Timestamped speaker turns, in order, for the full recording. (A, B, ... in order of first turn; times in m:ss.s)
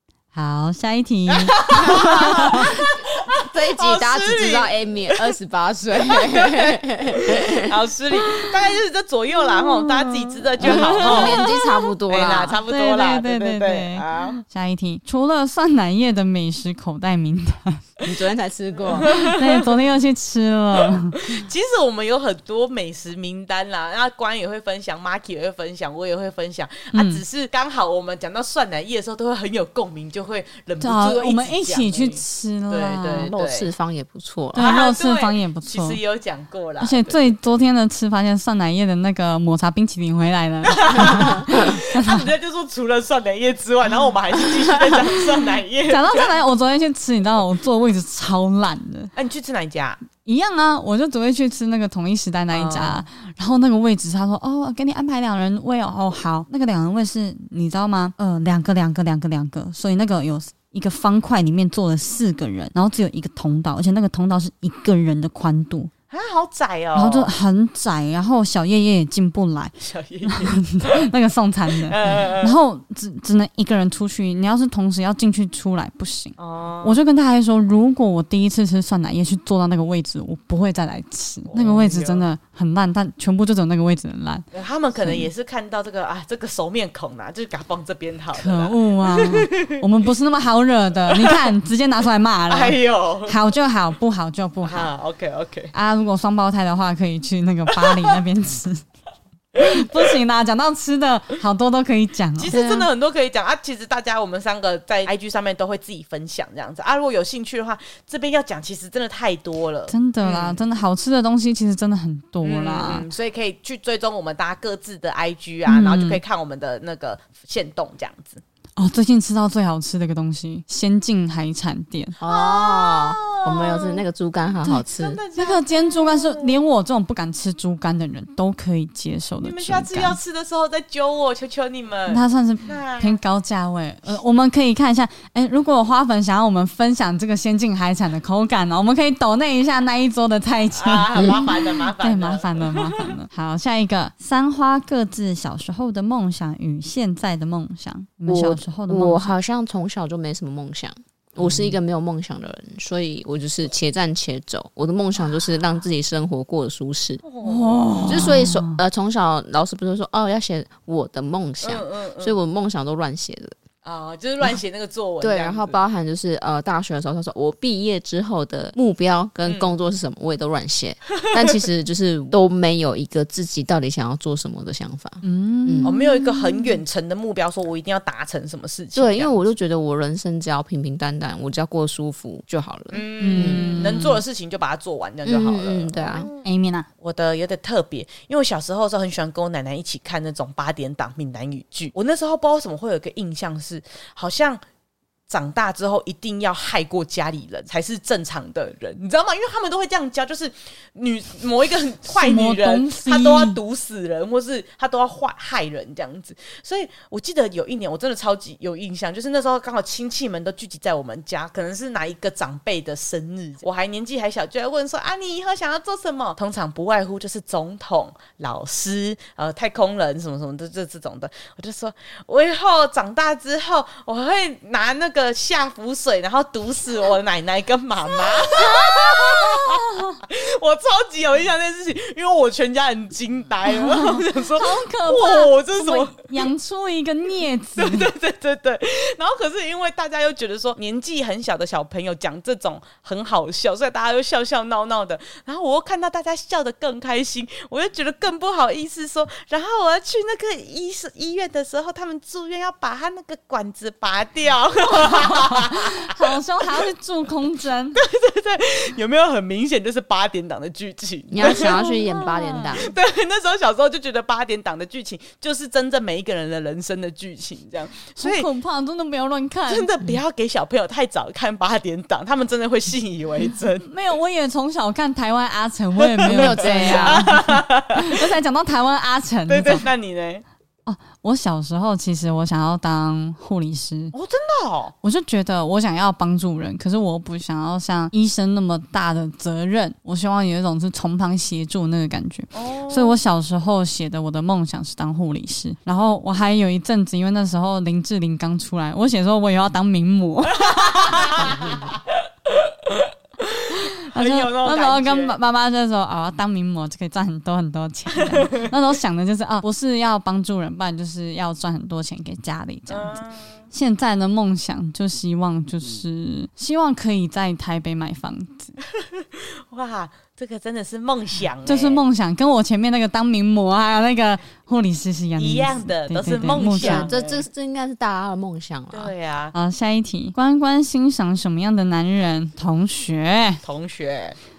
0:00.3-0:02.7 A
0:01.3-0:05.3 B
0:02.5-0:07.8 C
0:06.1-0:11.5 B
0:09.6-0:11.6 A
0:10.6-0:12.6 C
0:12.1-0:14.4 B
0:12.7-0:17.9 A
0:18.0-0:19.1 C
0:19.0-0:19.7 B
0:19.1-0:21.4 A
0:20.8-0:33.7 B
0:26.9-0:27.2 A
0:30.8-0:33.3 A
0:33.3-0:34.7 C
0:34.5-0:36.0 A
0:34.6-0:37.4 B
0:36.8-0:42.3 A
0:40.7-0:46.3 B
0:45.9-0:49.1 A
0:49.2-0:50.0 B
0:50.2-1:05.9 A
0:52.5-0:53.0 B
1:06.1-1:07.3 B
1:07.0-1:09.7 A
1:09.8-1:11.1 B
1:10.2-1:24.4 A
1:11.8-1:12.6 B
1:16.4-1:17.0 B
1:21.5-1:22.3 B
1:24.5-1:29.8 B
1:25.0-1:25.3 A
1:28.3-1:34.9 A
1:31.1-1:31.5 B
1:32.5-1:33.4 B
1:34.6-1:35.7 B
1:35.7-1:38.8 A
1:37.7-1:38.2 B
1:39.6-1:42.6 A
1:39.6-1:39.9 B
1:42.4-1:50.6 B
1:42.5-1:42.9 C
1:49.9-1:53.1 A
1:52.4-1:58.4 B
1:55.7-1:56.2 A
1:58.8-2:02.2 A
2:02.2-2:05.2 C
2:02.3-2:04.0 B
2:04.9-2:06.6 B
2:05.4-2:10.2 A
2:09.4-2:13.2 B
2:12.1-2:29.3 A
2:20.7-2:23.1 B
2:21.2-2:21.4 C
2:28.3-2:37.2 C
2:31.4-2:31.7 A
2:37.2-2:38.3 B
2:37.4-2:38.8 A
2:38.1-2:43.6 C
2:41.6-2:42.4 B
2:43.8-2:45.8 B
2:45.2-2:55.9 C
2:49.4-2:49.7 B
2:51.2-2:51.6 B
2:55.2-2:56.8 A
2:55.8-2:59.4 B
2:59.0-3:04.0 C
3:02.9-3:06.4 B
3:03.2-3:04.2 A
3:05.2-3:06.3 C
3:06.4-3:06.9 A
3:07.0-3:14.6 B
3:15.3-3:56.5 B
3:22.1-3:23.6 A
3:48.4-3:50.2 A
3:53.7-3:58.1 A
3:57.8-4:16.2 B
4:15.2-4:18.0 A
4:18.0-4:21.8 B
4:21.3-4:22.9 C
4:21.4-4:22.9 A
4:22.7-4:28.5 B
4:28.2-4:30.1 A
4:29.7-4:33.9 B
4:33.8-4:39.9 A
4:36.0-4:38.2 B
4:36.3-4:37.3 C
4:39.5-4:40.4 B
4:40.9-4:44.1 A
4:44.1-4:44.9 B
4:45.0-5:01.5 A
4:52.5-4:53.2 B
5:00.5-5:03.1 B
5:01.4-5:01.8 C
5:03.6-5:05.4 B
5:03.7-5:13.2 A
5:08.2-5:08.7 B
5:12.9-5:13.6 B
5:13.7-5:18.8 A
5:19.0-5:22.0 B
5:21.6-5:27.1 A
5:25.4-5:27.5 B
5:26.8-5:29.1 C
5:28.9-5:29.6 B
5:29.5-5:33.6 A
5:33.6-5:34.4 B